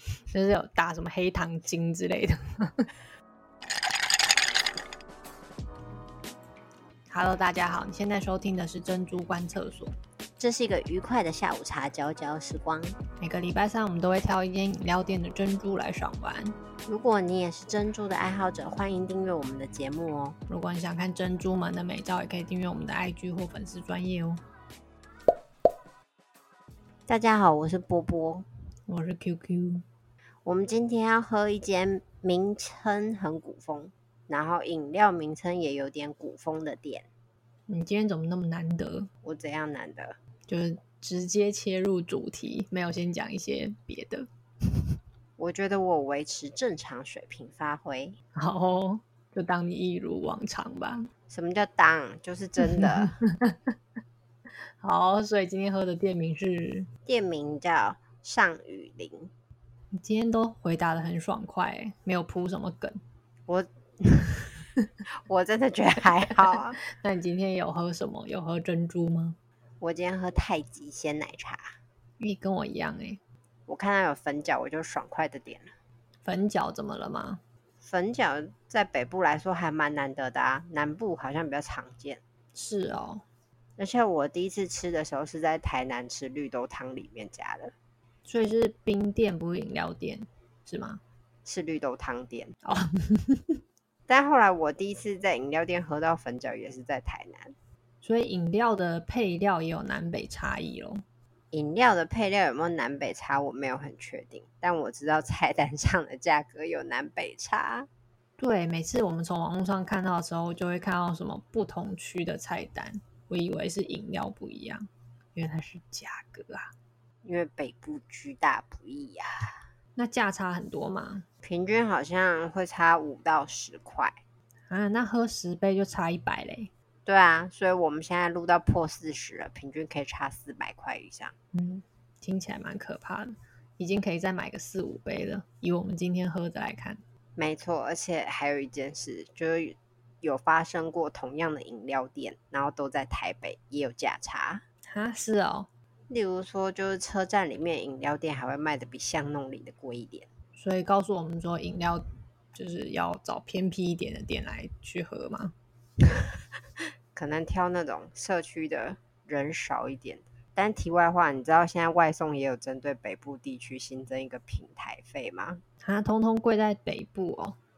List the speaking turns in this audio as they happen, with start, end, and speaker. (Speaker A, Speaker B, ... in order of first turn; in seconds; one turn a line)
Speaker A: 0.3-2.9
Speaker A: 7.1-9.9
Speaker B: 10.4-13.0
Speaker A: 13.2-16.5
Speaker B: 16.9-20.4
Speaker A: 20.5-24.4
Speaker B: 27.1-28.5
Speaker A: 28.9-29.8
Speaker B: 30.4-37.1
Speaker A: 37.7-39.1
Speaker B: 39.2-40.2
Speaker A: 40.5-44.3
Speaker B: 45.4-48.2
Speaker A: 48.4-51.1
Speaker B: 51.3-53.1
Speaker A: 52.8-53.7
Speaker A: 54.8-56.9
Speaker B: 57.0-59.3
Speaker A: 59.9-63.0
Speaker B: 63.5-64.5
Speaker B: 65.2-66.8
Speaker A: 66.8-69.4
Speaker B: 69.8-71.7
Speaker A: 72.2-73.2
Speaker B: 73.7-75.7
Speaker A: 76.2-77.4
Speaker B: 77.8-82.2
Speaker A: 82.5-83.2
Speaker B: 83.8-87.7
Speaker A: 88.2-91.0
Speaker B: 91.4-92.5
Speaker A: 92.6-93.6
Speaker B: 94.1-97.5
Speaker A: 98.0-101.0
Speaker B: 101.5-107.9
Speaker A: 108.4-116.7
Speaker B: 117.2-119.6
Speaker A: 120.0-121.2
Speaker B: 121.4-124.2
Speaker A: 124.7-126.7
Speaker B: 127.1-131.3
Speaker A: 131.5-137.0
Speaker B: 137.4-144.6
Speaker A: 144.9-145.7
Speaker B: 146.1-150.3
Speaker A: 150.6-155.5
Speaker B: 157.1-165.6
Speaker A: 165.8-167.6